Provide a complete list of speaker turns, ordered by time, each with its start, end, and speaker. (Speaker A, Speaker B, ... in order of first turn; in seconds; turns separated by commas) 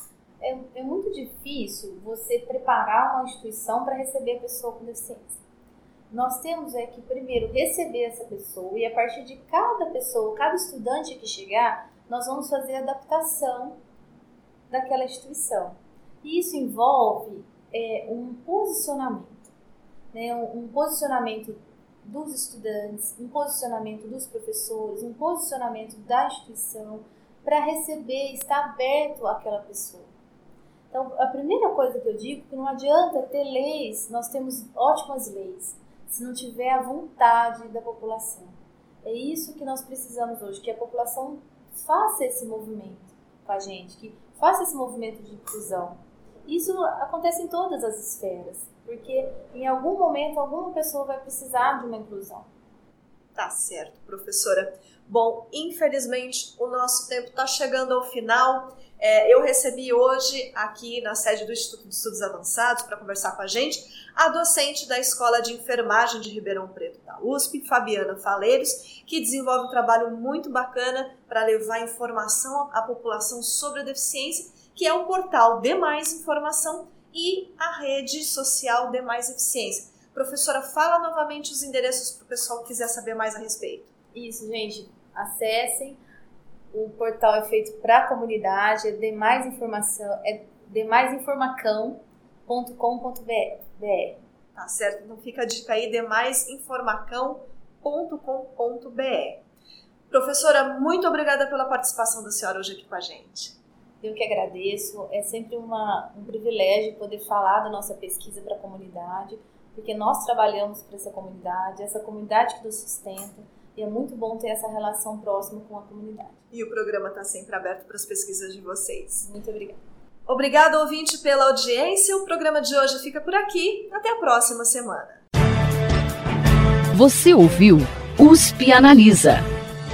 Speaker A: 0.4-5.4, Speaker A: 6.1-13.8, Speaker A: 14.7-19.5, Speaker A: 20.1-30.1, Speaker A: 30.9-38.5, Speaker A: 39.0-52.5, Speaker B: 53.3-83.9, Speaker A: 84.1-86.0, Speaker A: 86.7-94.2, Speaker B: 94.5-99.4, Speaker B: 100.1-103.5, Speaker A: 104.0-116.4, Speaker B: 116.5-119.3, Speaker A: 119.2-119.8, Speaker B: 120.3-125.2, Speaker C: 126.9-129.4